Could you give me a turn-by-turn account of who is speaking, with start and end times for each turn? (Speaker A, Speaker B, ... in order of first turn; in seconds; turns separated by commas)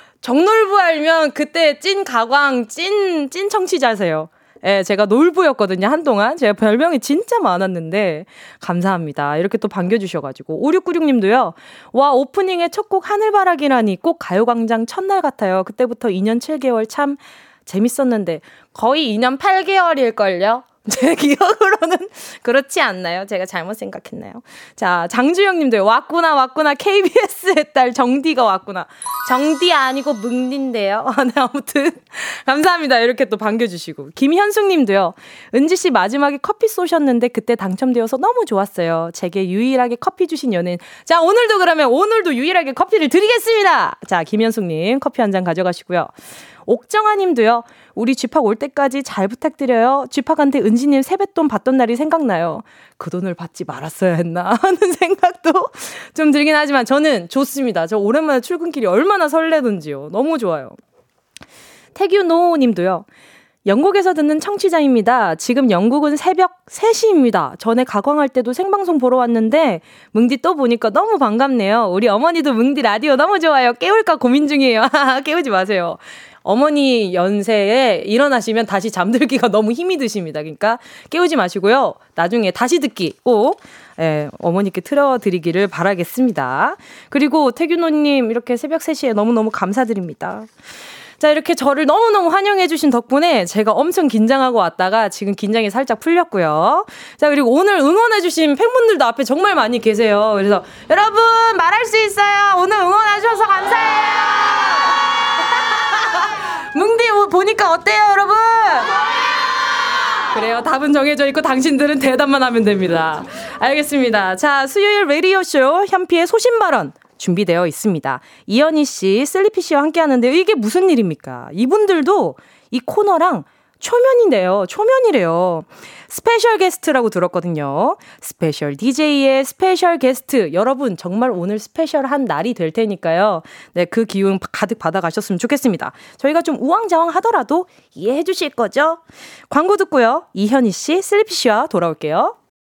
Speaker A: 0.2-46.1, Speaker A: 46.6-60.8, Speaker A: 61.9-63.0, Speaker A: 63.6-90.5, Speaker A: 91.2-109.2, Speaker A: 110.2-142.3